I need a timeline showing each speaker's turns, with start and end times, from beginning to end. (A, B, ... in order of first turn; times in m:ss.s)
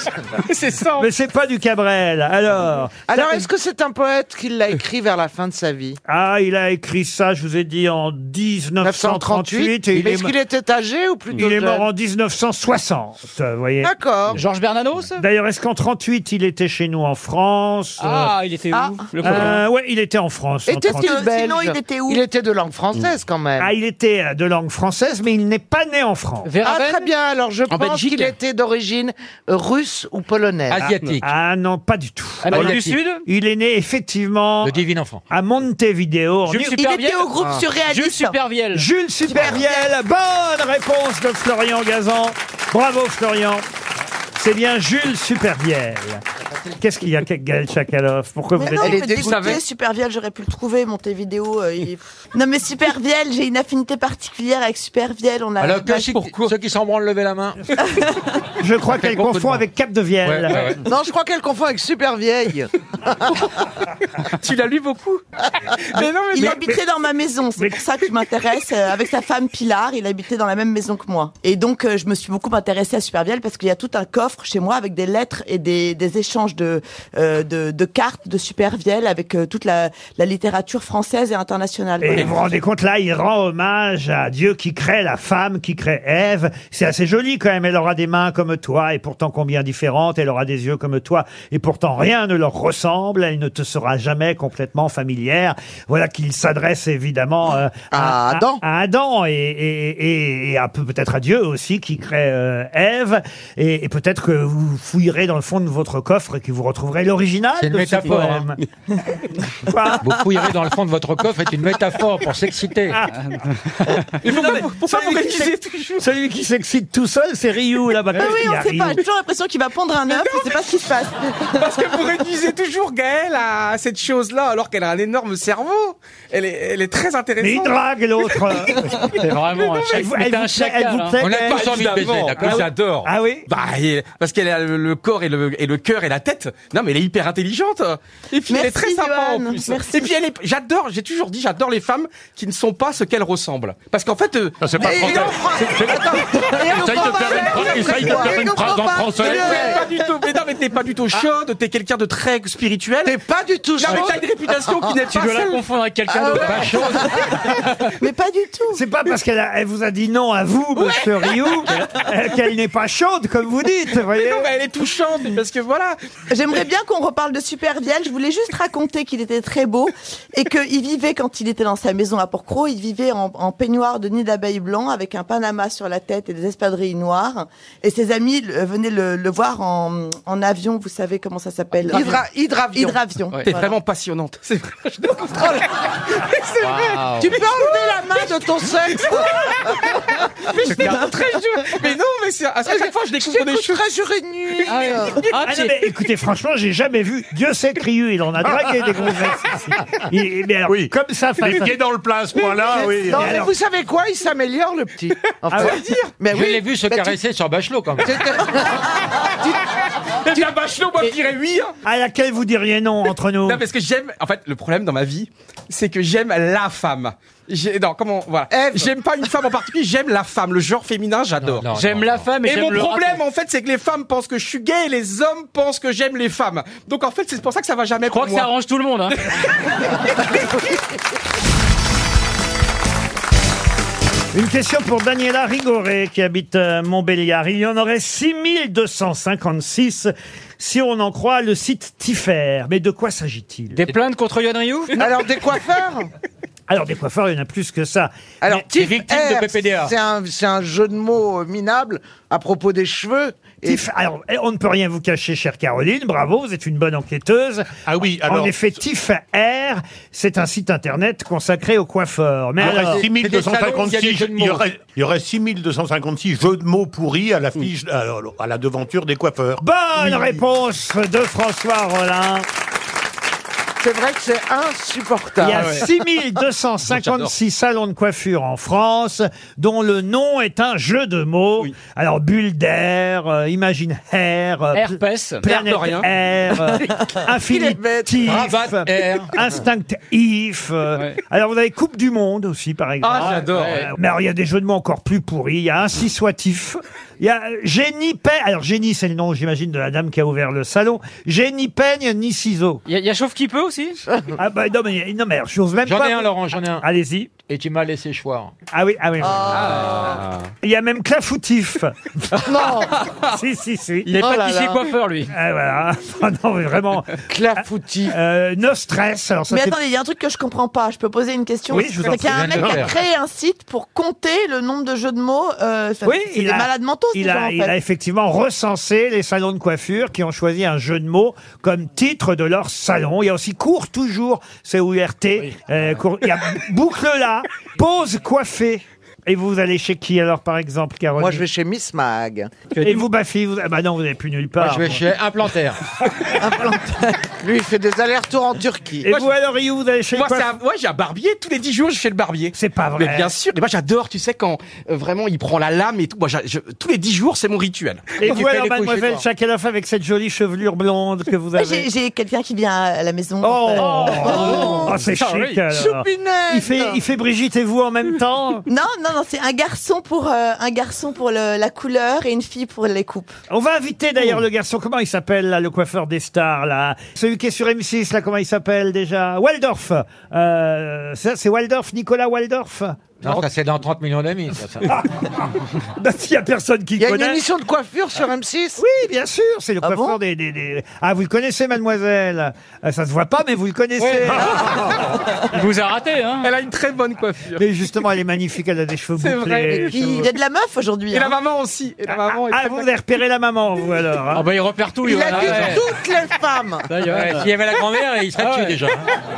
0:00.4-0:01.1 A
0:01.0-0:03.4 B
0:03.1-0:06.0 C
0:06.1-0:10.3 B
0:08.8-0:11.8 C
0:11.3-0:13.9 B
0:13.8-0:14.4 C
0:14.3-0:15.2 D
0:15.2-0:18.3 B
0:18.0-0:19.6 D
0:19.2-0:21.1 B
0:20.7-0:23.7 C
0:20.9-0:22.2 E
0:23.6-0:26.5 B
0:26.4-0:27.1 D
0:26.6-0:30.8 C
0:27.7-0:28.3 D
0:30.7-0:31.2 F
0:30.8-0:34.7 B
0:32.4-0:33.2 D
0:34.6-0:35.2 F
0:35.3-0:36.9 B
0:36.4-0:38.9 D
0:36.8-0:38.4 E
0:38.7-0:43.6 B
0:39.3-0:39.8 E
0:44.4-0:46.2 B
0:46.8-0:49.0 B
0:48.5-0:56.3 E
0:48.8-0:49.6 C
0:55.6-0:57.7 F
0:57.9-0:58.2 E
0:58.6-1:00.7 B
0:58.9-0:59.6 F
1:00.2-1:00.8 F
1:00.8-1:03.4 C
1:04.3-1:05.2 A
1:05.9-1:06.8 A
1:06.3-1:22.4 E
1:22.0-1:48.6 B
1:37.9-1:38.6 C
1:47.6-1:48.5 F
1:49.6-1:50.0 B
1:50.0-1:53.0 F
1:53.2-1:54.1 D
1:54.2-1:56.1 A
1:54.2-1:59.0 B
1:58.1-2:02.3 E
2:00.1-2:09.9 A
2:07.4-2:09.3 B
2:09.1-2:11.2 D
2:09.8-2:13.5 B
2:11.2-2:12.7 F
2:11.3-2:25.3 A
2:18.5-2:20.2 E
2:24.6-2:29.8 G
2:24.8-2:29.9 C
2:28.4-2:28.8 F
2:29.2-2:33.2 A
2:33.0-2:34.2 C
2:33.8-2:35.6 A
2:33.8-2:34.2 D
2:35.1-2:37.7 D
2:36.1-2:37.6 C
2:36.4-2:37.1 F
2:38.0-2:38.8 E
2:38.7-2:44.5 B
2:44.1-2:46.0 A
2:46.3-3:03.6 E
3:01.9-3:03.0 C
3:03.4-3:08.2 A
3:05.4-3:05.6 C
3:06.6-3:07.4 D
3:07.2-3:10.0 C
3:08.9-3:10.0 A
3:10.5-3:13.8 A
3:10.7-3:11.0 D
3:12.6-3:15.2 C
3:14.7-3:15.7 D
3:15.4-3:21.7 B
3:18.5-3:19.2 G
3:20.7-3:23.4 G
3:22.8-3:27.1 C
3:23.1-3:23.5 B
3:25.5-3:25.8 B
3:25.6-3:26.1 A
3:26.3-3:28.3 F
3:28.0-3:29.6 C
3:30.2-3:31.7 A
3:31.8-3:33.6 B
3:33.4-3:41.7 A
3:38.5-3:38.9 C
3:41.4-3:42.3 F
3:41.7-3:43.2 D
3:42.4-3:48.5 A
3:48.1-3:49.2 D
3:54.3-4:03.8 B
4:03.7-4:05.0 D
4:05.0-4:06.1 C
4:06.7-4:08.5 B
4:08.4-4:13.8 C
4:08.7-4:09.9 F
4:13.6-4:23.0 B
4:17.8-4:18.6 G
4:22.6-4:30.4 G
4:22.6-4:24.7 F
4:29.6-4:32.4 B
4:33.8-4:35.8 C
4:35.4-5:02.8 B
4:37.0-4:37.3 A
4:44.7-4:45.4 D
4:45.4-4:46.1 A
4:47.3-4:48.4 C
4:48.2-4:49.4 F
4:53.0-4:53.9 A
4:53.2-4:53.9 D
5:02.9-5:04.0 D
5:04.4-5:07.3 B
5:05.8-5:06.8 F
5:07.5-5:08.5 F
5:08.7-5:09.6 B
5:09.3-5:10.2 C
5:09.5-5:10.2 D
5:10.6-5:14.2 B
5:12.4-5:13.0 C
5:14.1-5:15.3 D
5:14.2-5:14.8 C
5:15.3-5:17.2 B
5:17.3-5:18.1 C
5:18.1-5:19.8 B
5:19.5-5:27.7 E
5:21.7-5:22.6 B
5:22.0-5:23.0 F
5:26.0-5:41.4 B
5:41.2-5:42.5 C
5:42.7-5:43.1 D
5:42.8-5:45.0 B
5:44.6-5:45.8 F
5:46.3-5:49.1 C
5:49.0-5:50.5 B
5:49.1-5:49.3 A
5:50.1-5:58.7 A
5:52.5-5:53.3 B
5:58.2-6:01.9 B
5:58.3-5:59.2 F
6:01.5-6:04.9 E
6:03.4-6:08.6 B
6:03.8-6:05.5 D
6:04.4-6:04.9 C
6:05.7-6:07.0 C
6:08.7-6:13.3 E
6:13.5-6:23.4 B
6:23.2-6:25.0 F
6:24.8-6:25.4 B
6:26.0-6:27.4 B
6:27.0-6:28.8 C
6:28.8-6:35.0 B
6:29.8-6:30.2 E
6:34.0-6:34.6 D
6:35.4-6:36.5 D
6:36.4-6:37.6 A
6:37.6-6:40.3 B
6:39.2-6:40.2 A
6:39.9-6:41.4 E
6:41.1-6:42.9 A
6:42.1-6:44.4 B
6:44.3-6:45.8 D
6:45.0-6:46.9 C
6:45.3-6:45.8 F
6:46.9-6:47.5 D
6:47.1-6:49.1 F
6:48.4-6:48.8 D